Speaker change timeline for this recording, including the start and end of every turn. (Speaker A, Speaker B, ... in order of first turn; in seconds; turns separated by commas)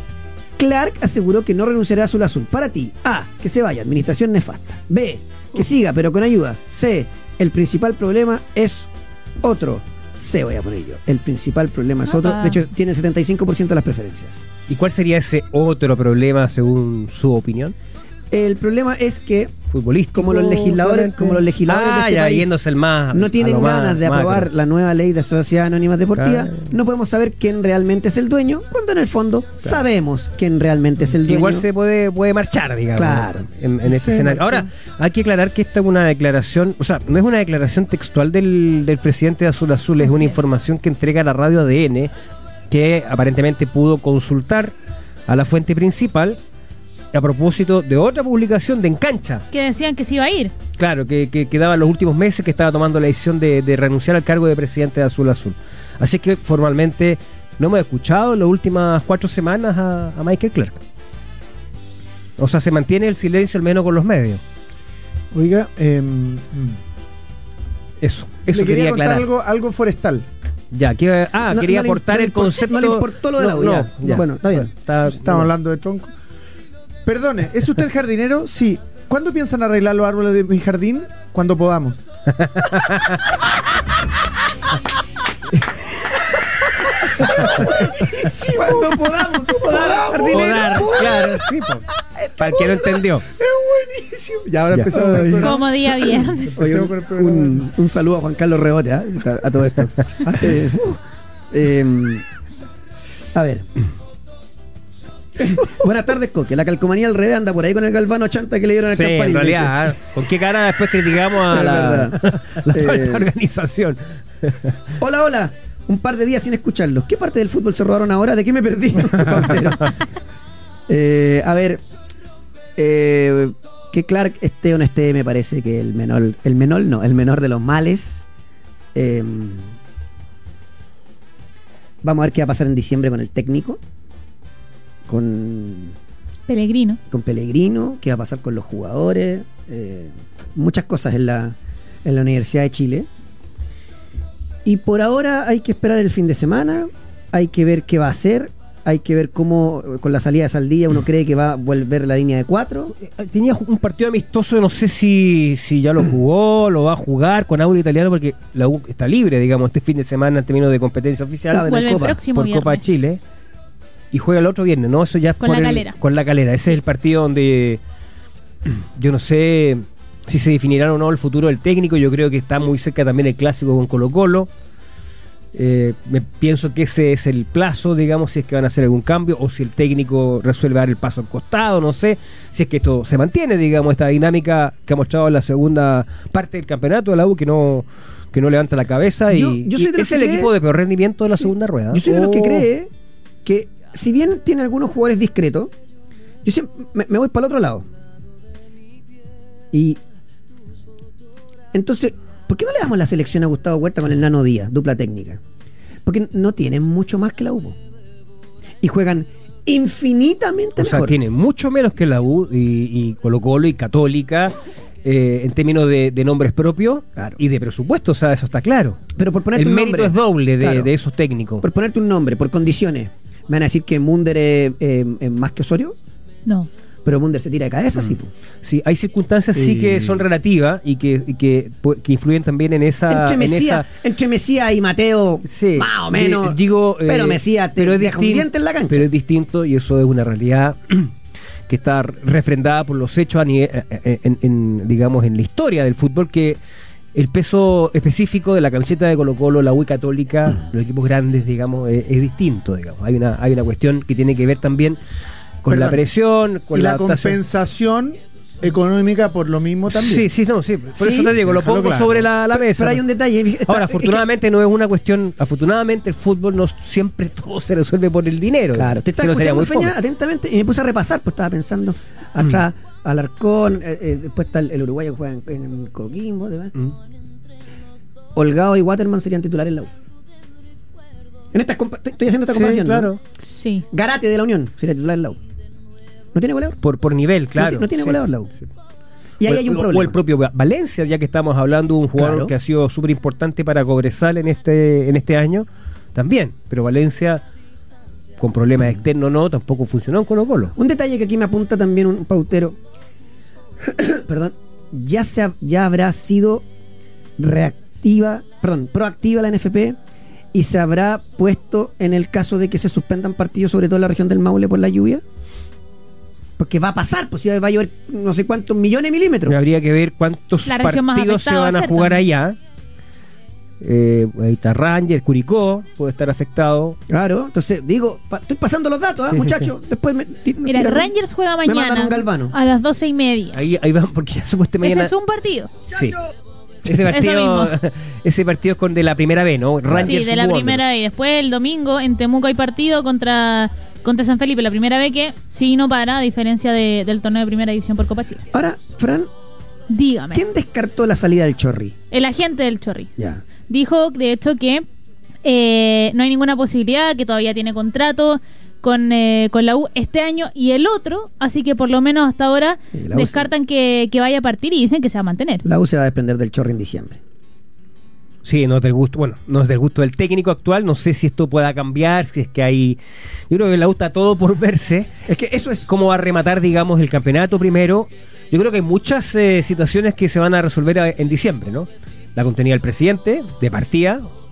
Speaker A: 0.6-8.9, Speaker A: 9.4-14.4, Speaker B: 12.1-12.6, Speaker C: 14.7-17.7, Speaker A: 18.3-19.5, Speaker C: 19.7-24.5, Speaker A: 20.1-22.6, Speaker A: 23.1-31.6, Speaker C: 26.1-26.7, Speaker C: 31.0-42.1, Speaker A: 32.9-33.5, Speaker D: 33.8-34.7, Speaker B: 40.0-40.4, Speaker C: 42.7-44.7, Speaker C: 45.3-46.4, Speaker C: 47.1-49.5, Speaker B: 49.5-50.5, Speaker C: 50.8-60.8, Speaker C: 62.4-64.4, Speaker D: 65.3-66.8, Speaker C: 68.0-69.3, Speaker D: 68.5-70.2, Speaker C: 70.7-75.5, Speaker A: 71.5-74.7, Speaker D: 75.1-76.1, Speaker D: 77.0-82.0, Speaker C: 82.4-83.3, Speaker A: 87.0-91.2, Speaker D: 87.2-97.7, Speaker C: 90.3-91.8, Speaker C: 92.4-93.2, Speaker C: 94.7-95.2, Speaker A: 94.9-95.7, Speaker B: 95.4-96.5, Speaker A: 96.5-101.0, Speaker D: 100.2-100.5, Speaker A: 101.5-102.2, Speaker A: 103.3-103.7, Speaker A: 105.4-109.9, Speaker C: 108.9-114.7, Speaker A: 111.5-113.3, Speaker A: 115.0-119.9, Speaker A: 120.9-121.8, Speaker A: 122.8-128.2, Speaker A: 128.9-129.8, Speaker A: 132.0-133.8, Speaker A: 135.1-135.9, Speaker B: 136.5-137.0, Speaker A: 137.1-143.1, Speaker A: 144.6-152.9, Speaker C: 153.0-163.2, Speaker A: 161.5-162.2, Speaker B: 161.6-163.0, Speaker C: 164.1-167.8, Speaker B: 165.4-165.9, Speaker C: 168.6-174.5, Speaker C: 175.5-192.7, Speaker A: 189.3-190.5, Speaker A: 191.9-192.9, Speaker A: 193.4-195.7, Speaker A: 196.4-197.8, Speaker A: 199.7-200.0, Speaker A: 201.7-205.4, Speaker A: 206.1-207.8, Speaker A: 208.8-211.2, Speaker C: 210.8-219.0, Speaker A: 219.2-220.9, Speaker C: 219.5-221.6, Speaker A: 221.6-225.9, Speaker A: 227.0-228.3, Speaker C: 228.6-233.8, Speaker D: 229.6-230.2, Speaker A: 233.1-239.1, Speaker C: 235.5-241.1, Speaker C: 241.7-246.6, Speaker C: 247.1-255.0, Speaker C: 255.6-257.4, Speaker D: 255.7-256.0, Speaker D: 256.7-260.3, Speaker C: 259.9-263.0, Speaker A: 261.0-261.3, Speaker D: 261.4-262.3, Speaker A: 262.5-264.2, Speaker C: 263.6-269.9, Speaker A: 268.7-276.7, Speaker A: 278.4-279.9, Speaker A: 281.5-283.1, Speaker C: 282.5-283.2, Speaker B: 283.4-283.9, Speaker A: 283.9-285.4, Speaker A: 286.3-286.8, Speaker C: 286.8-288.2, Speaker A: 287.6-288.5, Speaker A: 289.4-290.2, Speaker C: 289.4-297.4, Speaker A: 292.1-292.5, Speaker C: 298.4-300.7, Speaker A: 300.8-302.8, Speaker A: 303.8-306.6, Speaker A: 307.4-310.0, Speaker A: 310.5-315.2, Speaker A: 316.6-319.6, Speaker C: 319.5-322.6, Speaker B: 320.6-322.2, Speaker C: 323.8-327.0, Speaker A: 327.1-331.1, Speaker C: 329.3-329.7, Speaker B: 330.6-333.6, Speaker A: 331.6-332.5, Speaker C: 333.5-335.1, Speaker B: 334.8-335.7, Speaker C: 336.8-340.9, Speaker B: 337.1-337.8, Speaker B: 340.0-348.4, Speaker A: 348.5-349.3, Speaker B: 349.9-350.4, Speaker A: 350.3-351.9, Speaker B: 352.1-353.1, Speaker A: 353.2-353.4, Speaker B: 353.6-354.9, Speaker B: 355.4-365.6, Speaker A: 362.9-363.5, Speaker A: 365.6-367.2, Speaker C: 368.4-373.0, Speaker C: 373.5-375.1, Speaker A: 375.3-375.9, Speaker C: 375.9-384.3